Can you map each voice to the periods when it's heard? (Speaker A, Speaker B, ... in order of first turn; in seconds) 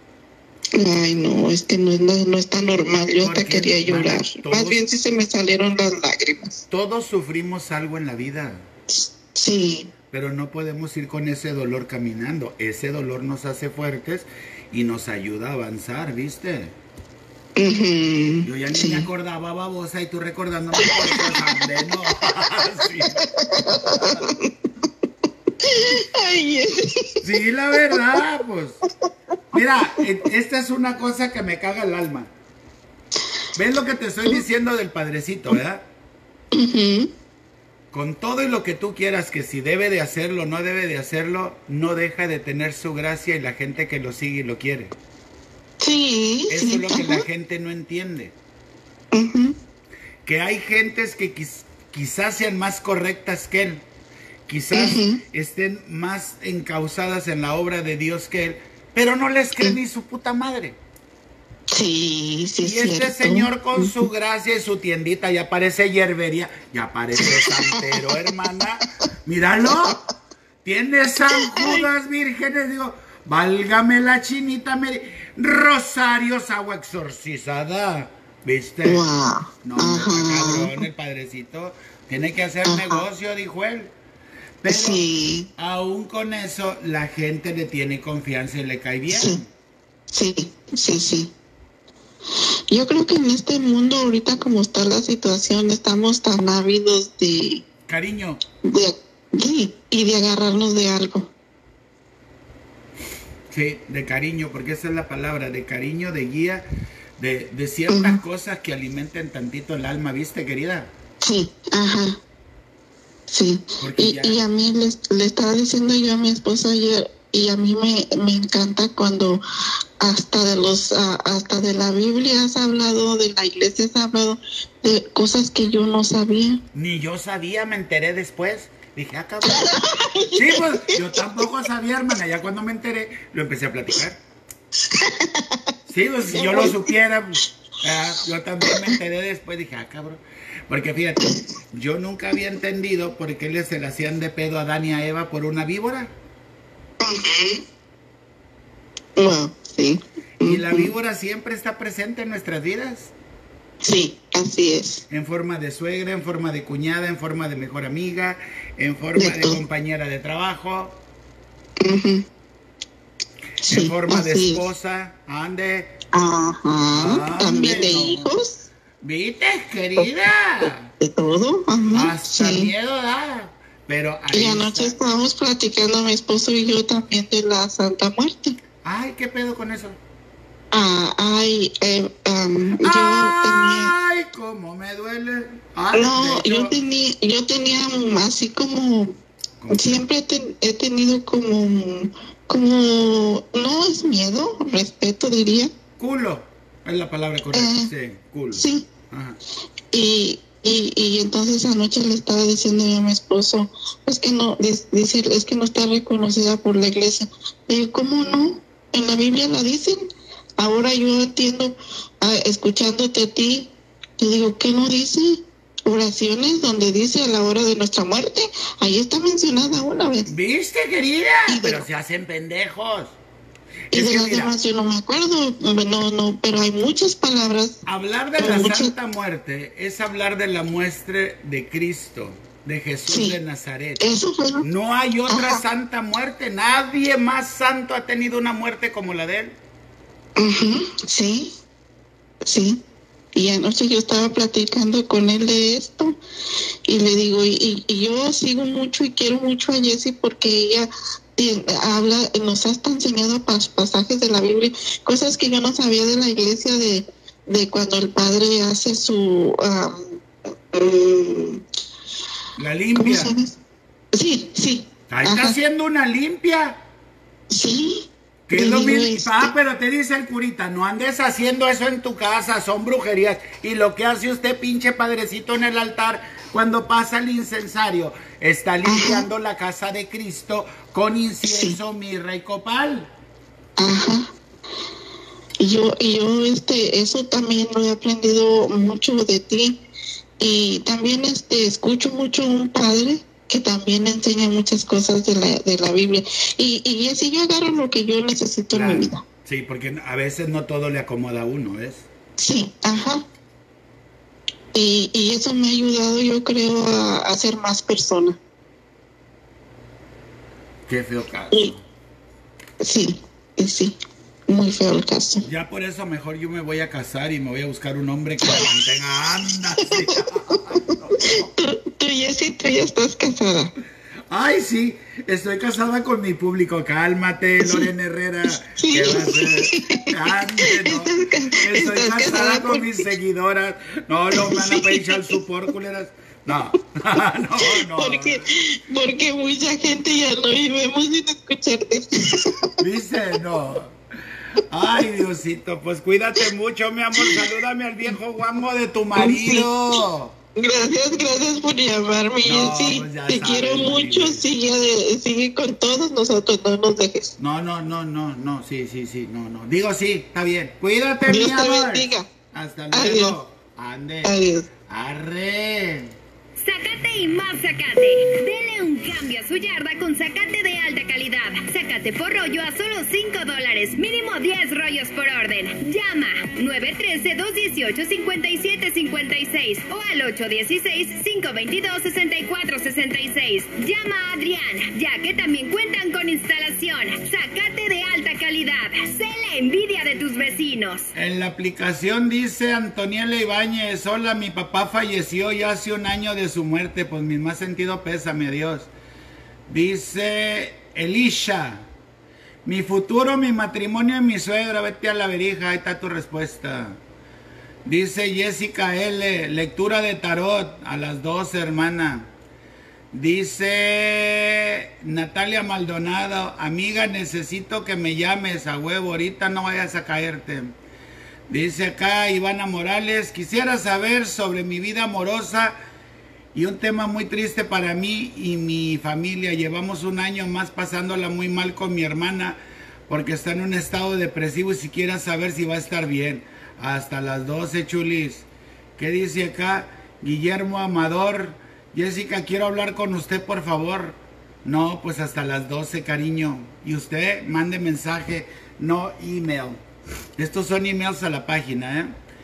Speaker A: 0.8-6.6, 8.9-9.9, 17.6-19.1, 20.8-21.6, 23.3-24.5, 25.6-27.2, 36.5-37.1, 45.8-47.2, 49.1-49.6, 54.7-55.2, 61.7-64.0, 67.2-68.4, 69.7-70.0, 71.3-71.9, 78.8-80.8, 82.6-83.0, 84.7-85.5, 89.1-89.4, 90.1-91.3, 92.7-97.6, 98.6-101.3, 107.9-108.2, 111.2-112.2, 113.3-119.4, 120.0-126.6, 129.4-131.1, 134.9-135.5, 136.3-136.9, 138.7-138.9, 147.0-147.6, 149.2-150.9, 153.8-155.0, 159.2-159.6, 161.8-162.3, 163.6-164.7, 166.1-168.6, 171.0-172.7, 174.3-178.6, 180.7-183.9, 185.9-189.2, 189.7-195.7, 197.5-197.9, 198.6-198.9, 199.9-210.1, 210.6-220.3, 221.5-221.8, 223.9-227.8, 228.4-228.9, 233.1-233.4, 234.0-234.7, 235.3-235.6, 240.4-241.6, 242.4-242.8, 243.3-246.2, 246.9-260.2, 260.7-261.6, 262.9-263.6, 264.1-265.6, 267.5-269.5, 278.9-279.3, 281.5-281.8, 283.8-284.3, 285.6-289.8, 290.4-299.2, 302.4-303.2, 304.7-308.4, 312.8-314.0, 314.5-315.4, 319.9-320.6, 321.5-323.7, 327.6-327.9, 328.7-333.1, 334.3-335.4, 337.6-342.6, 349.2-349.7, 350.6-357.3, 361.3-362.3, 362.9-363.4, 364.2-364.7
Speaker B: 3.2-4.8, 6.7-8.6, 10.1-16.7, 18.4-23.2, 27.2-28.8, 29.5-32.3, 33.6-35.9, 37.9-45.0, 46.5-48.4, 50.2-53.9, 54.5-60.8, 62.6-70.0, 70.6-79.0, 79.6-83.9, 84.6-85.0, 85.6-89.5, 97.9-98.4, 103.5-106.7, 107.2-110.9, 113.8-114.4, 126.7-129.8, 130.3-134.2, 135.9-146.1, 150.4-153.1, 155.1-161.0, 163.7-165.9, 166.9-168.3, 169.0-170.9, 171.9-175.0, 178.8-180.0, 182.8-186.8, 189.6-190.1, 196.0-199.4, 220.3-223.2, 223.9-224.5, 227.9-239.6, 262.6-263.3, 265.1-266.8, 268.5-283.1, 298.7-302.1, 310.9-311.8, 315.4-321.5, 324.3-338.4, 342.8-343.9, 344.7-350.4, 352.4-354.5, 357.4-364.4, 364.9-366.1, 391.1-398.9, 399.7-401.9, 402.6-407.0, 407.9-412.3, 413.1-420.7, 421.5-425.8, 426.5-449.8, 450.4-452.1
Speaker C: 366.6-391.1